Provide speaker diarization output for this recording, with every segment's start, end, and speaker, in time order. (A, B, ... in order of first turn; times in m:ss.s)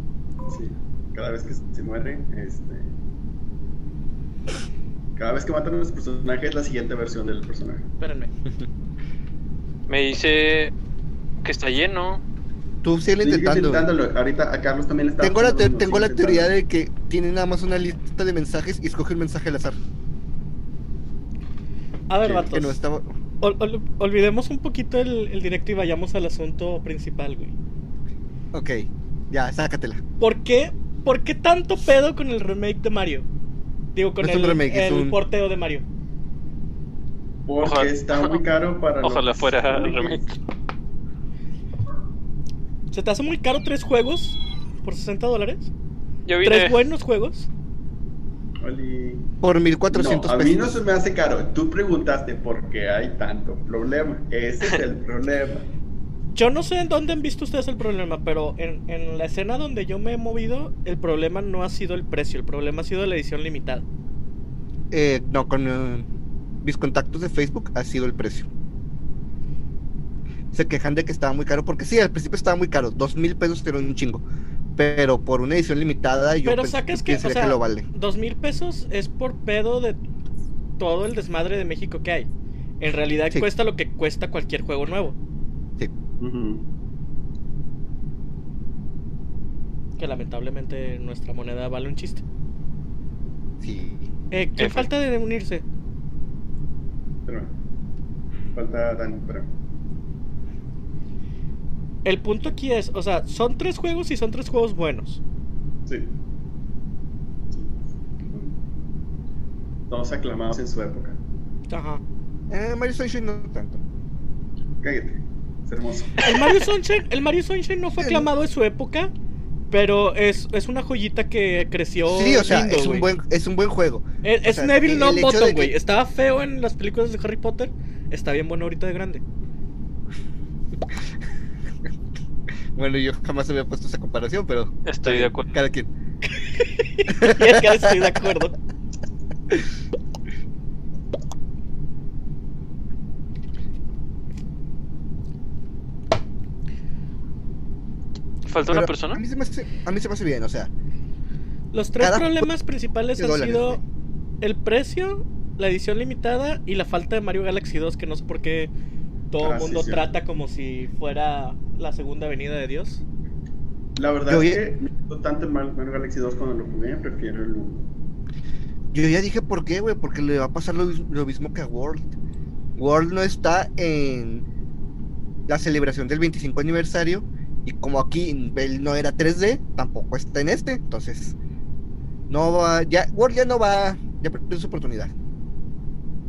0:00.5-0:02.9 A
0:05.2-0:07.9 A
0:08.0-0:08.3 B
0:09.9-0:10.7 C
0:11.4-0:12.2 C
0:12.8-0:13.9 D
0:13.2-0:16.5 A
0:15.2-0:19.8 D
0:22.1-0:22.8 B
0:22.4-0:23.1 D
0:23.4-0:27.6 B
0:28.5-0:30.0 D
0:30.2-0:33.3 B
0:33.9-0:35.9 B
0:34.2-0:35.2 D
0:37.4-0:40.3 A
0:37.6-0:38.4 C
0:39.0-0:40.3 C
0:42.9-0:45.7 B
0:46.3-0:46.8 C
0:46.4-0:47.5 B
0:48.6-0:49.3 A
0:49.4-0:50.7 D
0:49.9-0:55.7 A
0:56.3-1:03.8 B
1:04.9-1:06.1 D
1:06.6-1:08.5 D
1:10.5-1:14.2 D
1:14.8-1:17.9 D
1:16.4-1:20.0 B
1:20.8-1:22.3 B
1:22.8-1:25.2 B
1:26.2-1:26.7 A
1:30.0-1:32.2 B
1:33.6-1:34.1 D
1:34.3-1:35.6 B
1:34.6-1:34.9 C
1:37.3-1:37.6 A
1:38.5-1:39.5 A
1:42.0-1:45.2 B
1:45.9-1:46.1 A
1:47.5-1:47.8 A
1:48.3-1:48.6 A
1:49.9-1:51.2 A
1:51.7-1:52.0 B
1:52.5-1:53.8 D
1:54.8-1:56.2 A
1:56.2-1:59.1 B
1:58.0-1:58.3 D
1:59.7-2:03.1 B
2:02.1-2:05.7 D
2:04.2-2:09.2 B
2:12.8-2:15.9 D
2:14.9-2:15.5 C
2:16.4-2:18.6 B
2:17.1-2:18.3 D
2:28.4-2:29.2 C
2:28.7-2:30.7 D
2:31.7-2:33.8 B
2:32.0-2:32.4 D
2:33.2-2:33.8 D
2:34.4-2:38.7 B
2:39.3-2:43.0 B
2:39.4-2:40.1 A
2:44.0-2:47.9 A
2:44.3-2:44.6 D
2:48.9-2:52.1 D
2:52.8-2:54.4 D
2:55.5-3:01.4 D
3:02.3-3:05.1 D